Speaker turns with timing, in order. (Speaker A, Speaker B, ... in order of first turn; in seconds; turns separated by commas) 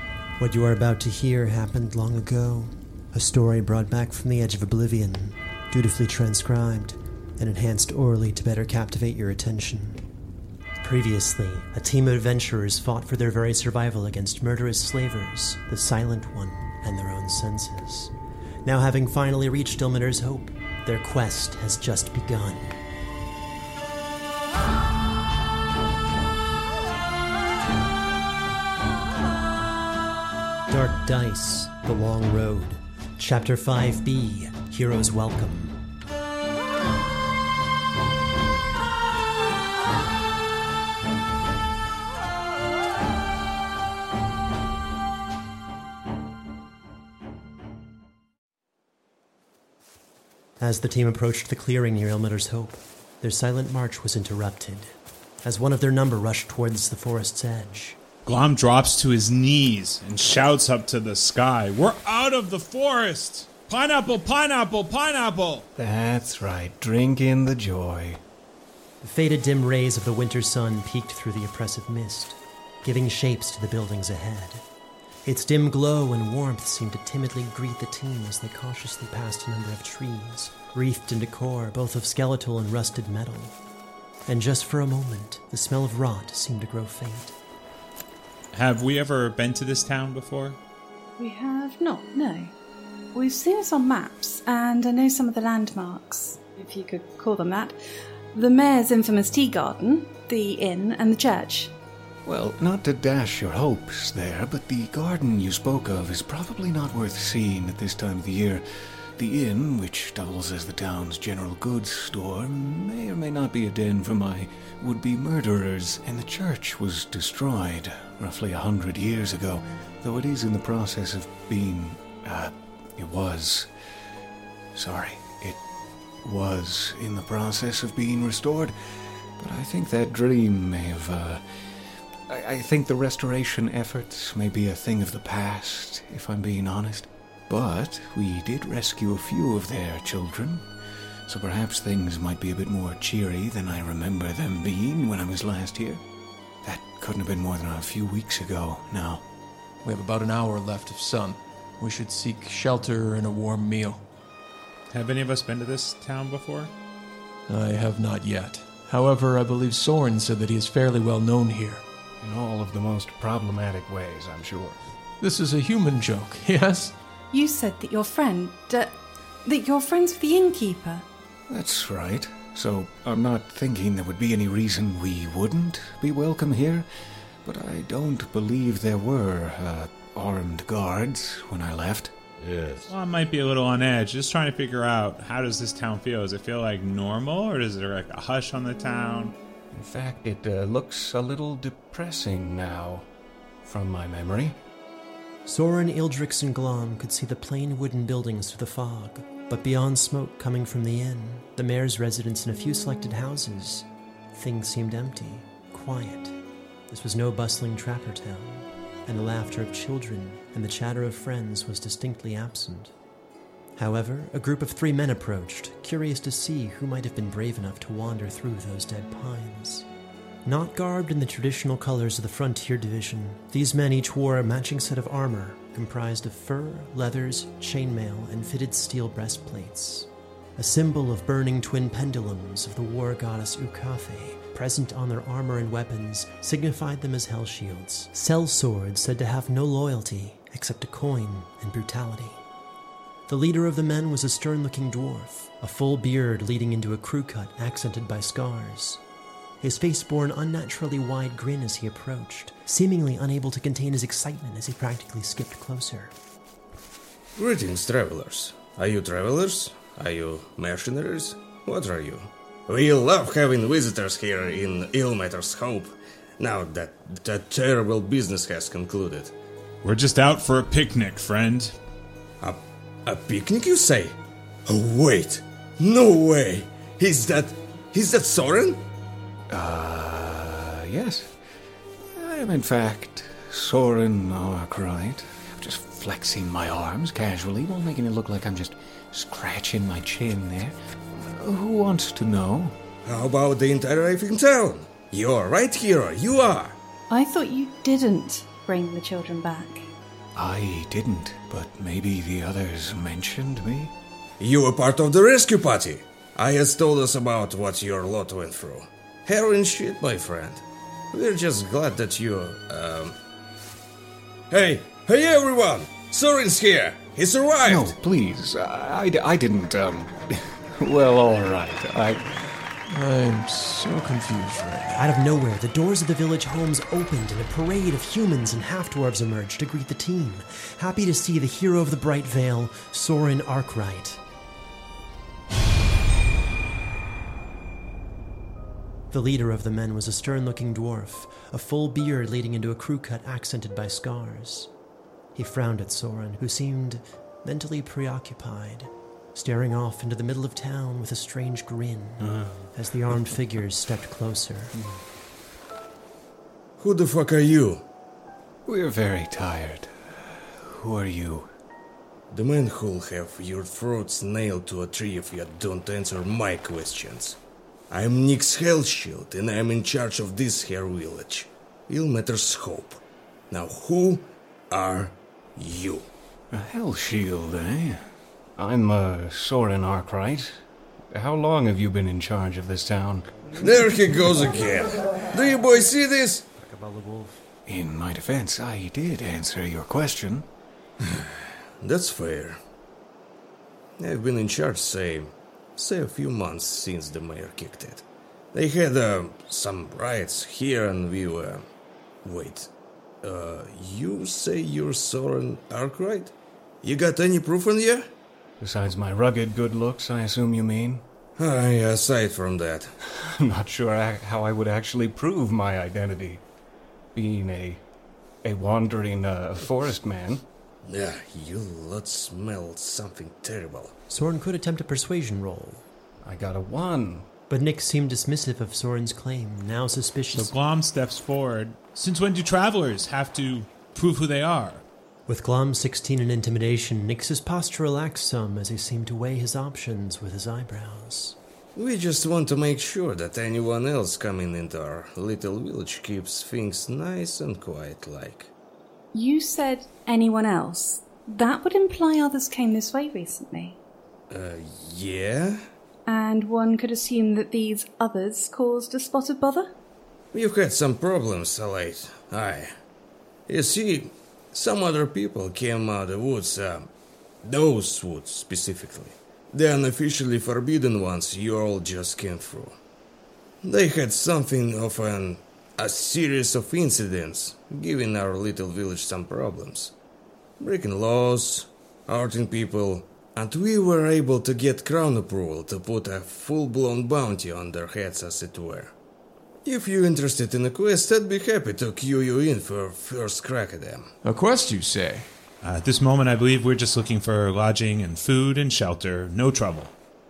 Speaker A: 0.4-10.0, Speaker A: 10.8-18.1, Speaker A: 18.6-22.7, Speaker A: 30.7-35.8, Speaker A: 50.6-58.0, Speaker B: 58.2-65.7, Speaker C: 65.8-68.2, Speaker A: 69.0-74.6, Speaker A: 75.2-83.5, Speaker A: 84.3-87.3, Speaker B: 88.5-90.6, Speaker D: 91.2-92.5, Speaker D: 93.1-97.7, Speaker D: 98.3-101.7, Speaker C: 102.2-123.7, Speaker C: 124.7-125.6, Speaker C: 126.2-140.7, Speaker C: 141.2-146.0, Speaker C: 146.6-149.2, Speaker E: 149.8-154.0, Speaker B: 154.9-156.7, Speaker E: 157.5-161.8, Speaker C: 162.2-164.8, Speaker E: 165.2-166.9, Speaker D: 167.3-171.0, Speaker C: 171.5-176.9, Speaker C: 177.4-182.1, Speaker B: 182.9-189.3, Speaker C: 189.7-193.1, Speaker C: 193.6-194.6, Speaker A: 195.4-206.3, Speaker A: 206.9-212.9, Speaker A: 213.8-219.8, Speaker A: 220.4-242.4, Speaker A: 243.3-249.0, Speaker A: 249.6-256.1, Speaker F: 257.4-269.3, Speaker B: 269.8-271.7, Speaker F: 272.4-278.8, Speaker C: 279.5-281.3, Speaker C: 282.1-292.8, Speaker F: 293.1-296.8, Speaker D: 297.1-299.9, Speaker C: 300.3-303.9, Speaker F: 304.4-313.1, Speaker F: 314.5-317.9, Speaker C: 317.6-322.6, Speaker E: 322.9-325.1, Speaker A: 324.9-334.2, Speaker A: 339.1-344.7, Speaker A: 345.3-354.7, Speaker C: 352.2-353.2, Speaker C: 354.7-355.0, Speaker F: 356.8-357.8, Speaker C: 358.6-361.5, Speaker F: 362.3-367.4, Speaker F: 367.9-376.1, Speaker C: 376.5-383.3, Speaker F: 383.6-386.4, Speaker A: 386.6-387.3, Speaker C: 387.6-390.5, Speaker F: 391.0-392.6, Speaker F: 394.0-401.6, Speaker F: 402.2-402.7, Speaker F: 403.2-408.1, Speaker C: 408.6-411.0, Speaker F: 411.4-412.9, Speaker C: 413.2-416.4, Speaker C: 417.1-417.8, Speaker C: 418.4-420.4, Speaker F: 420.9-423.9, Speaker A: 424.1-425.8, Speaker C: 426.2-427.3, Speaker A: 427.5-430.5, Speaker B: 430.3-434.8, Speaker A: 435.3-441.4, Speaker F: 441.8-448.5, Speaker D: 449.1-453.8, Speaker F: 454.3-455.6, Speaker D: 456.1-459.7, Speaker F: 460.3-462.7, Speaker F: 463.5-466.9, Speaker F: 467.4-472.8, Speaker F: 473.6-479.9, Speaker F: 480.6-488.9, Speaker F: 489.6-494.1, Speaker E: 494.2-495.3, Speaker B: 495.6-499.9